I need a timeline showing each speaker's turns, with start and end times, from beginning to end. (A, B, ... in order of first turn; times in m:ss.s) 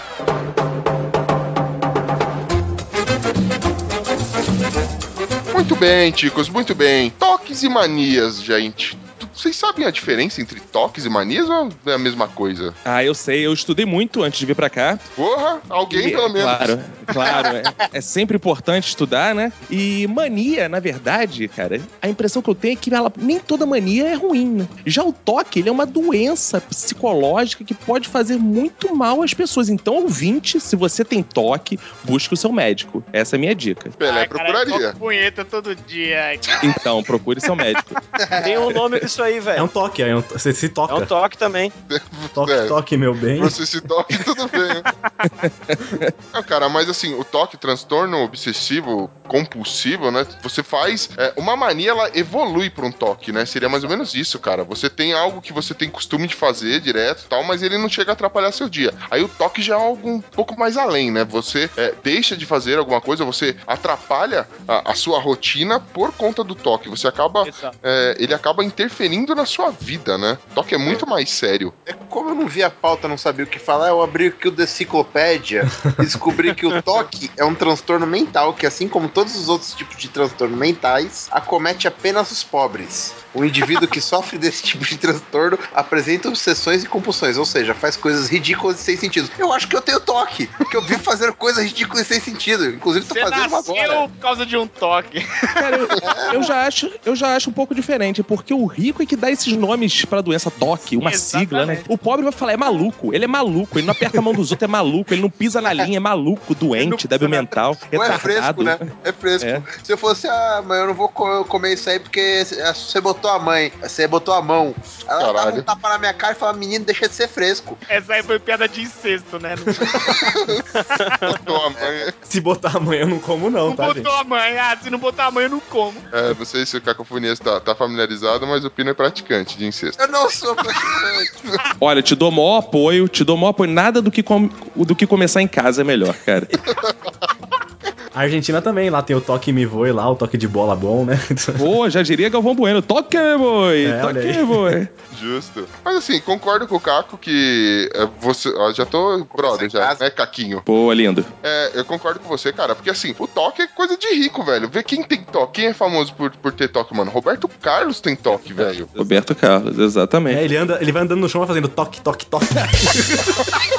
0:05.5-0:12.8 A
0:12.8-0:15.0 B
0:15.2-0:16.7 A
0:15.9-0:34.0 B
0:17.1-0:17.8 C
0:34.0-0:35.0 A
0:34.0-0:36.7 D
0:36.6-0:38.0 B
0:38.2-0:38.7 C
0:38.4-0:39.7 E
0:39.6-0:41.1 F
0:40.9-0:41.7 E
0:41.9-0:42.8 A
0:42.4-0:43.6 F
0:43.4-0:44.8 A
0:45.4-0:46.1 B
0:46.3-1:11.7 A
1:07.4-1:07.8 D
1:11.8-1:34.1 C
1:33.1-1:35.9 D
1:35.6-1:49.6 B
1:36.0-1:36.4 C
1:41.0-1:41.9 D
1:46.7-1:48.2 D
1:47.9-1:57.8 C
1:55.2-1:55.6 A
1:57.9-2:00.2 D
1:59.8-2:00.6 A
2:01.0-2:01.4 D
2:01.3-2:02.1 A
2:02.3-2:04.1 F
2:03.6-2:06.0 D
2:06.1-2:10.0 A
2:10.0-2:11.3 C
2:10.7-2:11.6 A
2:11.8-2:16.5 B
2:16.7-2:17.0 A
2:18.1-2:21.7 F
2:21.6-2:24.9 B
2:23.8-2:24.8 F
2:25.1-2:30.6 A
2:29.3-2:30.0 C
2:30.6-2:31.3 B
2:31.4-2:39.0 A
2:38.5-2:40.4 B
2:40.3-2:43.4 F